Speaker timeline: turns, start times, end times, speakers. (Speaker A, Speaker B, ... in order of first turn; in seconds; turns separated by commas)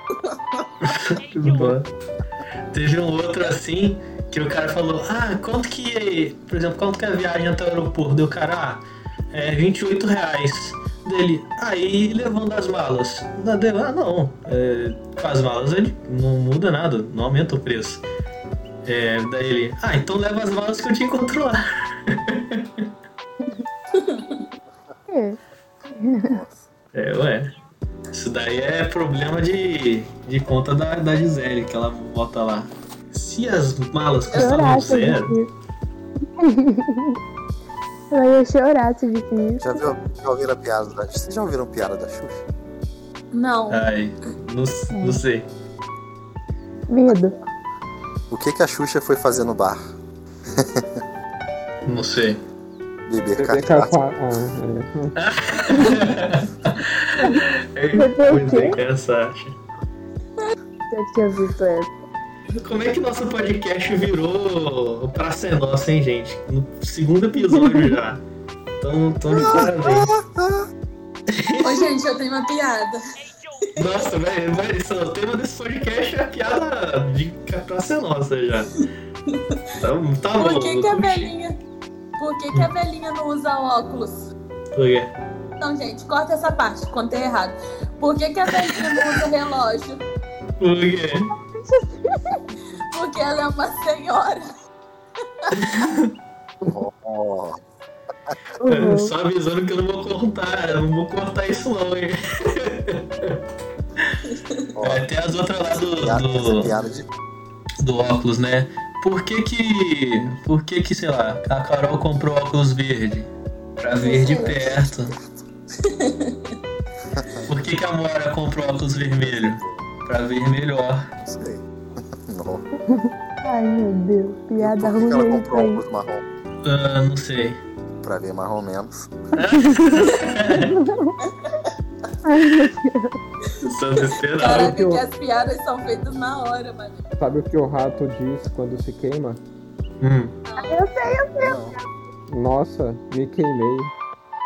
Speaker A: 0.2-0.7, Speaker B: 0.8-1.9, Speaker B: 2.7-18.0, Speaker B: 18.8-22.9, Speaker A: 23.9-24.4, Speaker C: 25.1-26.4, Speaker D: 26.2-26.6, Speaker B: 26.9-27.5, Speaker B: 28.1-35.4, Speaker A: 34.3-34.9, Speaker C: 34.3-35.5, Speaker C: 36.4-37.2, Speaker C: 38.1-39.8, Speaker D: 39.6-42.4, Speaker A: 43.3-43.8, Speaker B: 43.7-45.5, Speaker C: 44.9-45.2, Speaker C: 46.9-47.3, Speaker D: 47.1-47.5, Speaker D: 48.3-49.9, Speaker D: 50.5-51.0, Speaker B: 51.8-52.4, Speaker D: 53.1-54.0, Speaker E: 53.3-55.1, Speaker B: 55.1-59.5, Speaker C: 57.9-58.8, Speaker C: 60.9-61.9, Speaker B: 62.5-68.2, Speaker C: 67.4-68.0, Speaker B: 68.8-70.1, Speaker D: 69.3-70.7, Speaker B: 71.3-71.9, Speaker A: 71.6-73.0, Speaker B: 73.8-78.8, Speaker A: 78.8-79.6, Speaker B: 79.8-81.3, Speaker A: 80.4-81.5, Speaker A: 82.2-84.2, Speaker B: 84.7-85.1, Speaker A: 85.6-90.0, Speaker B: 88.5-89.2, Speaker B: 90.6-91.3, Speaker C: 91.3-92.4, Speaker A: 92.8-94.4, Speaker B: 95.5-96.1, Speaker D: 96.6-97.6, Speaker C: 98.6-99.1, Speaker B: 98.7-103.4, Speaker A: 104.3-104.7, Speaker D: 104.8-105.0, Speaker B: 104.8-106.7, Speaker D: 105.7-107.1, Speaker B: 107.8-115.1, Speaker C: 114.0-114.5, Speaker A: 114.0-114.5, Speaker D: 114.4-115.4, Speaker A: 115.8-116.5, Speaker D: 117.2-117.5, Speaker B: 117.5-121.1, Speaker D: 119.2-119.8, Speaker D: 121.2-122.7, Speaker C: 122.9-125.8, Speaker D: 124.6-126.2, Speaker B: 126.6-127.6, Speaker D: 128.0-129.1, Speaker B: 129.3-130.7, Speaker C: 129.5-131.2, Speaker A: 130.1-130.5, Speaker A: 131.2-131.6, Speaker C: 132.2-133.2, Speaker A: 133.4-137.0, Speaker B: 133.6-134.8, Speaker E: 134.5-135.0, Speaker E: 137.2-139.4, Speaker B: 140.0-140.3, Speaker A: 140.5-140.8, Speaker C: 140.6-141.9, Speaker D: 141.4-141.7, Speaker E: 142.3-143.9